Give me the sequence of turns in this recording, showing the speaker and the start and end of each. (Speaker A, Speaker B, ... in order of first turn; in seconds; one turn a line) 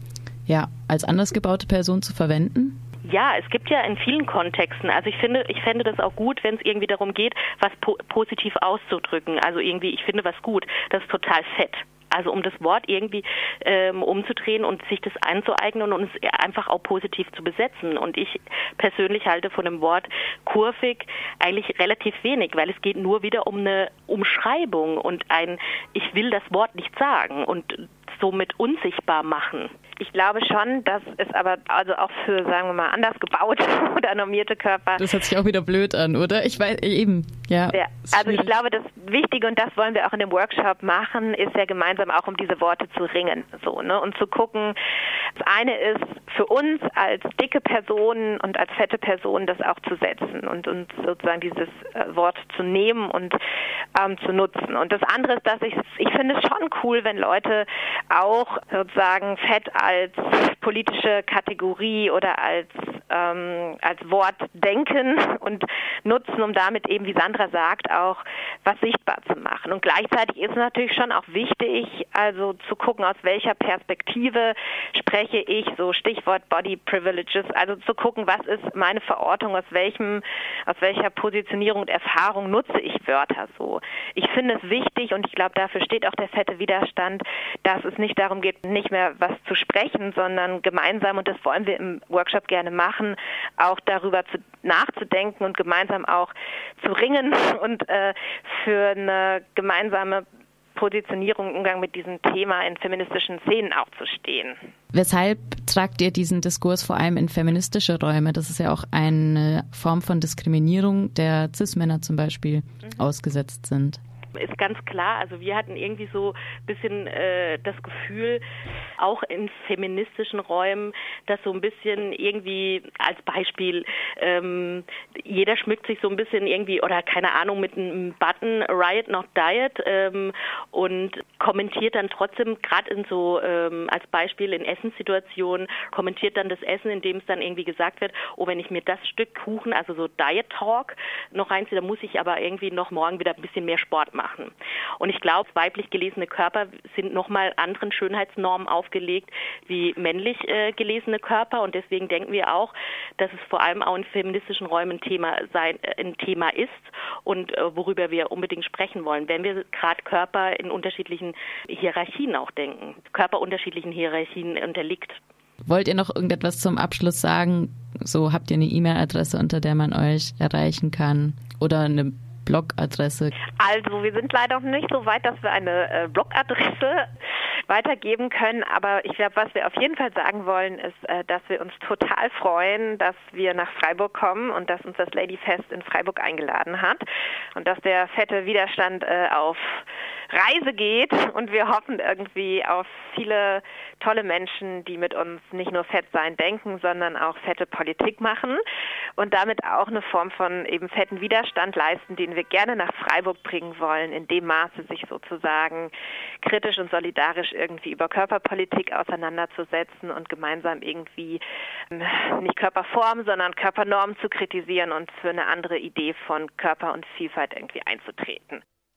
Speaker A: 0.5-2.8
Speaker B: 3.0-29.7
Speaker C: 30.0-35.0
Speaker A: 35.0-38.5
Speaker C: 37.7-44.8
Speaker C: 45.4-53.4
Speaker C: 53.9-104.6
Speaker A: 104.9-114.0
Speaker B: 114.3-118.4
Speaker B: 119.0-165.2
Speaker A: 165.6-173.3
Speaker C: 173.6-177.0
Speaker C: 177.7-198.6
Speaker C: 199.2-211.4
Speaker C: 211.9-218.6